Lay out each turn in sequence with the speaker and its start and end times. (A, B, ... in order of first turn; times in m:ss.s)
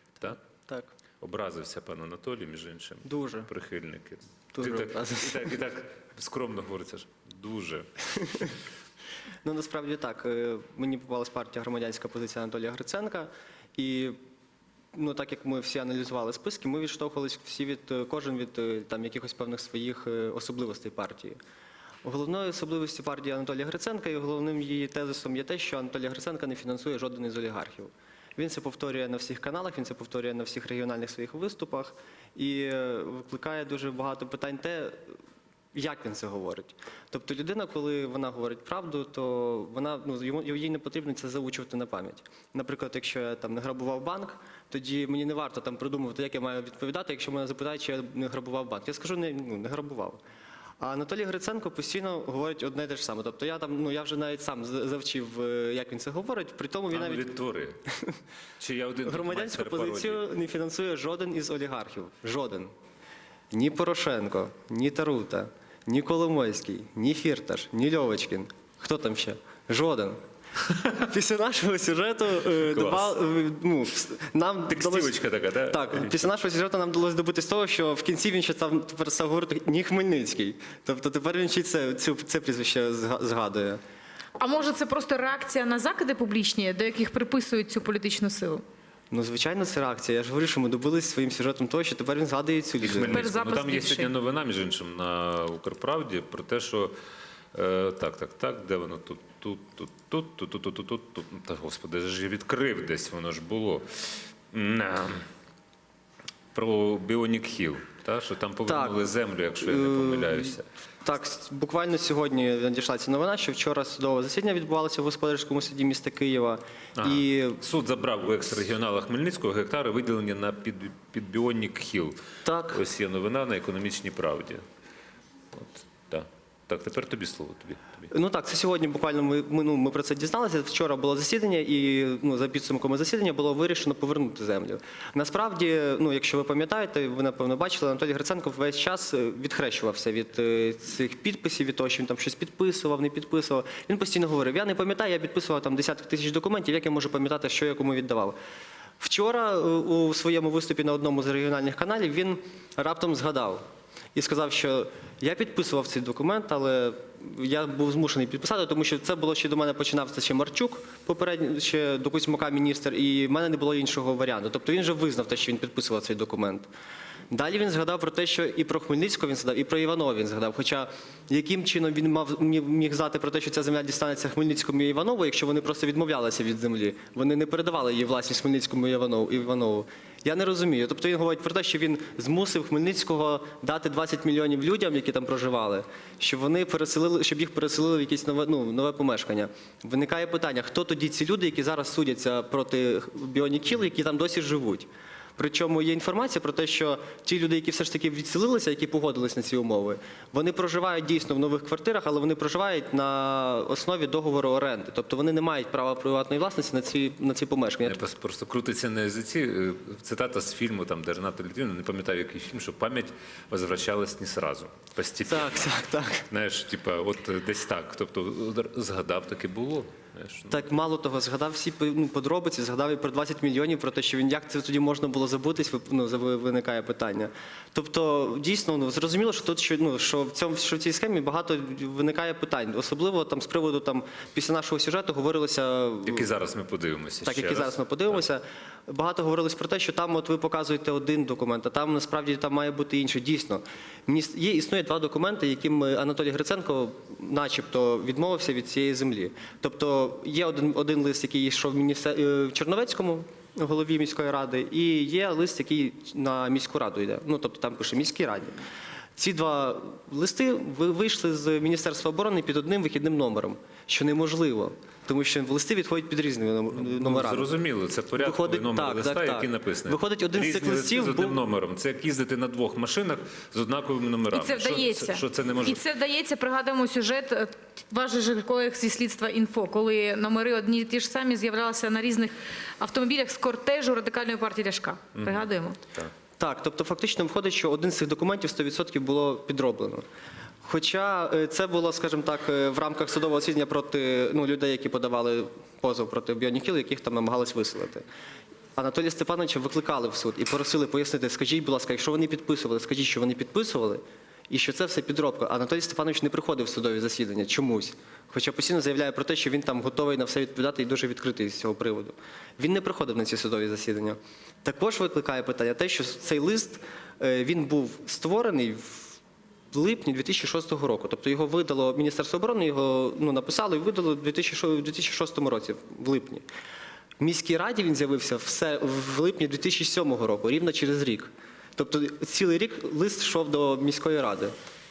0:00.2-0:00.9 A
0:01.2-0:07.9 B
0:03.0-0:03.5 A
0:04.5-0:05.5 A
0:09.4-0:14.2 A
0:14.9-0:21.4 A
0:22.0-0:35.1 A
0:35.7-0:50.2 A
0:50.8-0:57.3 A
0:56.9-0:57.8 B
0:58.6-1:00.2 B
0:59.0-1:02.7 A
1:03.5-1:10.2 A
1:10.9-1:23.8 A
1:12.6-1:13.2 B
1:14.7-1:16.3 B
1:24.4-1:28.6 C
1:29.1-1:33.3 A
1:32.8-1:36.9 B
1:33.1-1:34.1 C
1:37.5-1:45.3 B
1:46.5-1:50.6 B
1:48.7-1:57.6 A
1:57.0-2:02.2 B
2:02.4-2:02.8 A
2:02.7-2:04.6 B
2:05.5-2:08.1 B
2:08.1-2:28.4 A
2:29.0-2:33.6 A
2:34.2-2:46.7 A
2:47.3-3:28.0 A
3:27.8-3:35.8 B
3:35.3-3:36.2 A
3:36.3-3:40.7 B
3:40.5-3:56.3 A
3:56.0-3:58.2 B
3:57.2-4:18.6 A
4:19.2-4:27.5 A
4:26.7-4:35.8 B
4:28.2-4:31.4 A
4:34.3-4:45.8 C
4:45.2-4:46.1 B
4:46.4-4:50.0 A
4:50.6-4:58.0 A
4:58.8-5:19.2 A
5:19.7-5:26.4 A
5:27.2-5:34.5 A